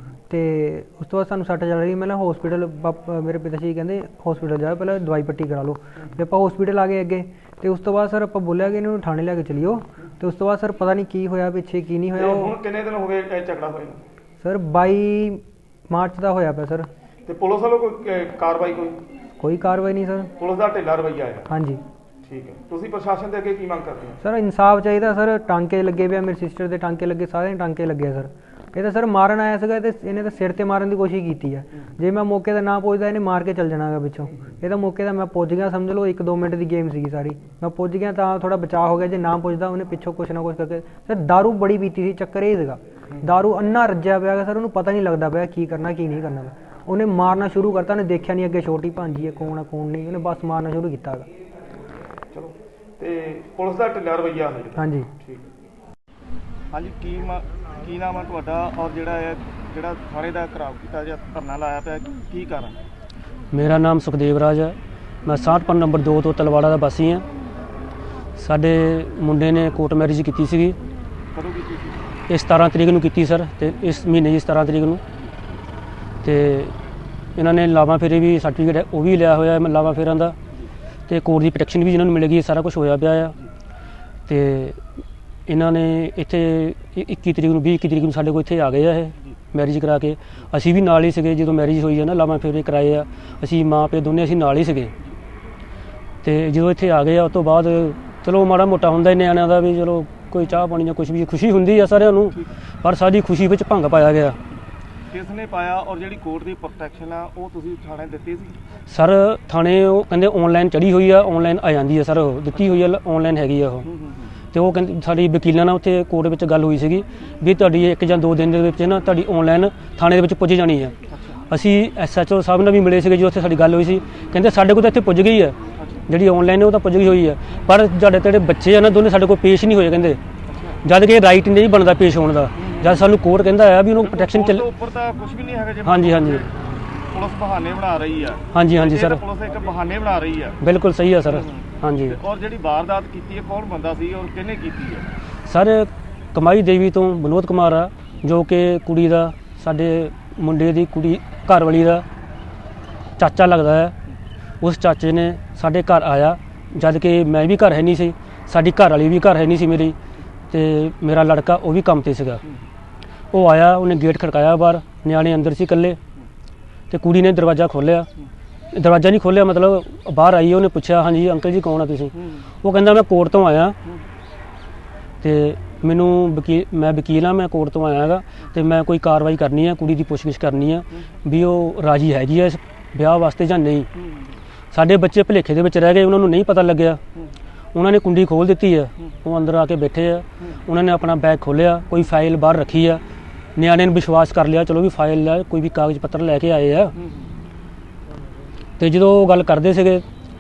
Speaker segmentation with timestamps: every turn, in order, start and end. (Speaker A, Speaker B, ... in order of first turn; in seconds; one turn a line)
Speaker A: 0.3-12.6
Speaker B: 12.2-14.0
Speaker A: 14.4-16.9
Speaker B: 17.3-19.0
Speaker A: 19.4-20.3
Speaker B: 20.4-21.5
Speaker A: 21.5-21.8
Speaker B: 22.2-24.2
Speaker A: 24.2-51.3
Speaker B: 52.3-55.5
Speaker A: 54.8-55.1
Speaker B: 56.7-62.8
Speaker C: 63.5-67.2
Speaker C: 68.4-70.8
Speaker B: 71.3-72.2
Speaker C: 72.3-75.0
Speaker C: 76.2-76.7
Speaker C: 77.4-80.4
Speaker C: 81.1-83.4
Speaker C: 84.3-84.8
Speaker C: 85.5-94.9
Speaker C: 96.2-104.4
Speaker B: 105.1-108.6
Speaker C: 108.9-113.9
Speaker B: 112.5-112.9
Speaker B: 113.8-114.3
Speaker C: 114.5-120.9
Speaker B: 121.1-121.4
Speaker C: 121.5-125.6
Speaker B: 125.8-126.0
Speaker C: 126.1-130.2
Speaker B: 130.5-130.8
Speaker C: 130.8-134.7
Speaker B: 132.6-133.1
Speaker B: 134.0-136.5
Speaker C: 135.8-136.5
Speaker B: 137.1-140.6
Speaker C: 138.5-139.2
Speaker C: 140.6-142.2
Speaker B: 141.2-145.1
Speaker C: 145.5-152.1
Speaker C: 153.2-153.9
Speaker C: 154.6-160.0
Speaker C: 160.5-162.4
Speaker C: 163.3-166.0
Speaker C: 166.9-168.1
Speaker C: 168.7-173.8
Speaker B: 172.2-172.4
Speaker C: 175.2-183.9
Speaker B: 184.0-184.4
Speaker C: 184.7-187.0
Speaker C: 187.7-193.0
Speaker C: 193.6-197.0
Speaker B: 197.0-197.3
Speaker C: 198.8-200.1